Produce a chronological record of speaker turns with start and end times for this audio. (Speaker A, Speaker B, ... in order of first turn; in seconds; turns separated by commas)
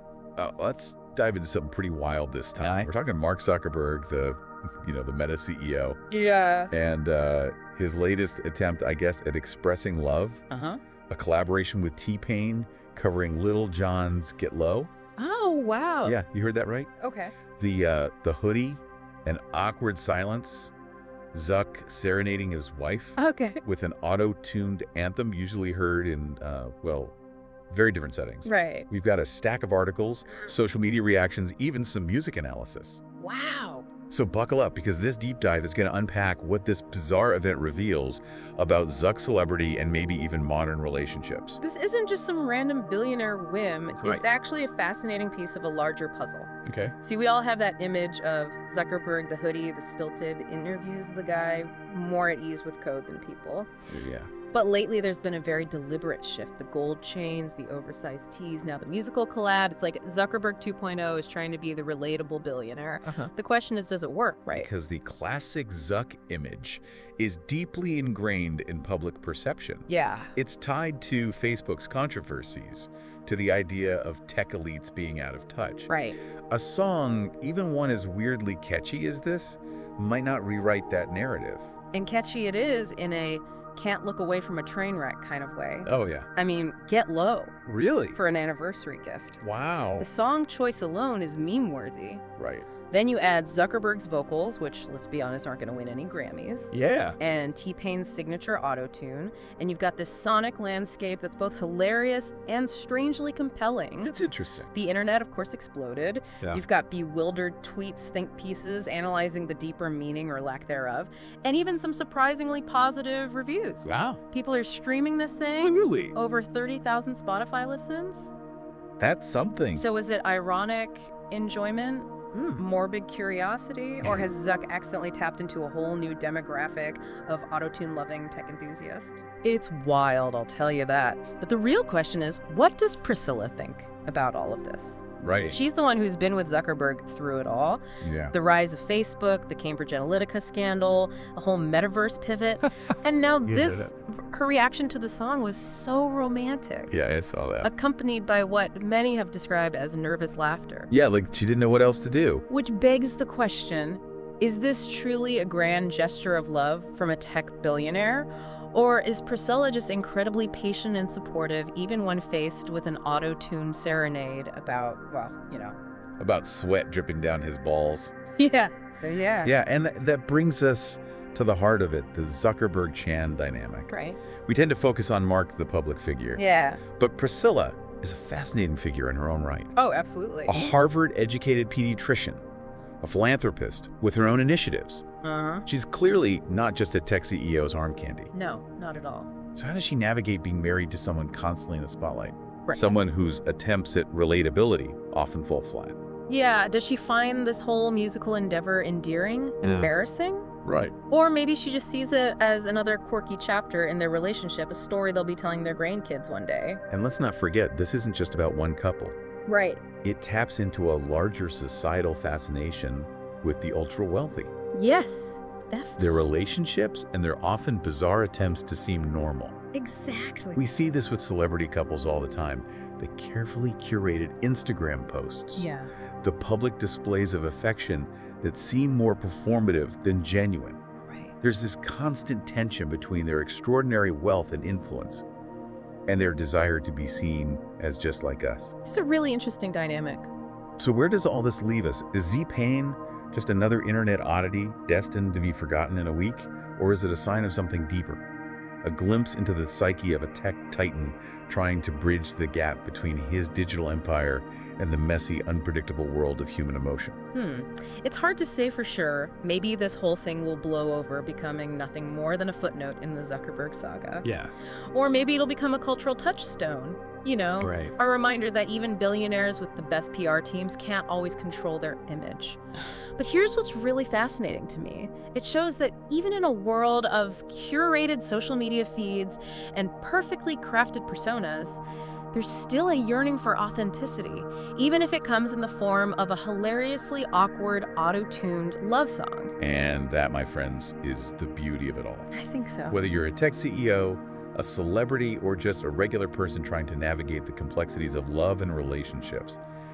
Speaker A: 0.3-6.0, Speaker B: 6.1-6.7, Speaker A: 6.7-10.4, Speaker B: 10.5-10.8, Speaker A: 11.1-14.9, Speaker B: 15.2-16.2, Speaker A: 16.0-16.9, Speaker B: 17.0-17.3, Speaker A: 17.6-20.7, Speaker A: 21.3-27.1, Speaker B: 23.2-23.6, Speaker A: 27.7-33.0, Speaker B: 28.4-28.9, Speaker B: 33.2-33.9, Speaker A: 34.1-41.6, Speaker B: 41.6-53.7, Speaker A: 44.0-44.2, Speaker A: 46.6-46.9, Speaker A: 53.9-54.3, Speaker B: 54.5-64.7, Speaker A: 64.5-75.9, Speaker B: 69.9-70.3, Speaker B: 75.9-76.2, Speaker A: 76.5-81.7, Speaker B: 81.9-87.5, Speaker A: 85.8-86.3, Speaker A: 87.7-88.2, Speaker B: 88.1-89.4, Speaker A: 89.4-90.1, Speaker B: 90.0-92.2, Speaker A: 92.4-92.7, Speaker B: 92.9-104.1, Speaker A: 96.7-97.2, Speaker A: 104.0-104.7, Speaker B: 104.7-118.3, Speaker A: 113.8-114.2, Speaker A: 115.6-116.1, Speaker A: 119.0-119.8, Speaker B: 119.7-146.9, Speaker A: 122.3-122.6, Speaker A: 135.2-135.6, Speaker A: 138.0-138.3, Speaker A: 143.4-143.9, Speaker A: 146.9-147.7, Speaker B: 147.6-150.9, Speaker A: 150.9-152.4, Speaker B: 152.5-165.8, Speaker A: 166.2-168.1, Speaker B: 168.4-169.5, Speaker A: 169.4-173.9, Speaker B: 173.9-174.2, Speaker A: 174.4-179.7, Speaker B: 176.3-176.8, Speaker B: 179.7-180.7, Speaker A: 180.5-182.4, Speaker A: 183.0-185.0, Speaker B: 185.2-185.7, Speaker A: 185.7-188.3, Speaker B: 188.3-189.3, Speaker A: 189.5-196.0, Speaker B: 196.3-200.5, Speaker A: 199.6-199.9, Speaker A: 200.6-200.9, Speaker B: 201.1-206.8, Speaker A: 206.9-209.2, Speaker B: 209.5-209.8, Speaker A: 210.0-214.5, Speaker B: 214.7-216.3, Speaker A: 216.0-219.5, Speaker B: 219.7-220.6, Speaker A: 220.6-225.7, Speaker B: 225.6-225.9, Speaker A: 226.2-230.8, Speaker B: 231.1-231.3, Speaker A: 231.4-235.2, Speaker A: 236.1-238.7, Speaker B: 238.8-240.3, Speaker A: 240.8-248.2, Speaker A: 248.8-257.2, Speaker B: 257.3-272.6, Speaker A: 264.2-264.5, Speaker A: 267.6-267.9, Speaker B: 273.1-281.8, Speaker B: 282.3-289.5, Speaker A: 289.6-292.3, Speaker B: 292.3-293.0, Speaker A: 292.9-299.6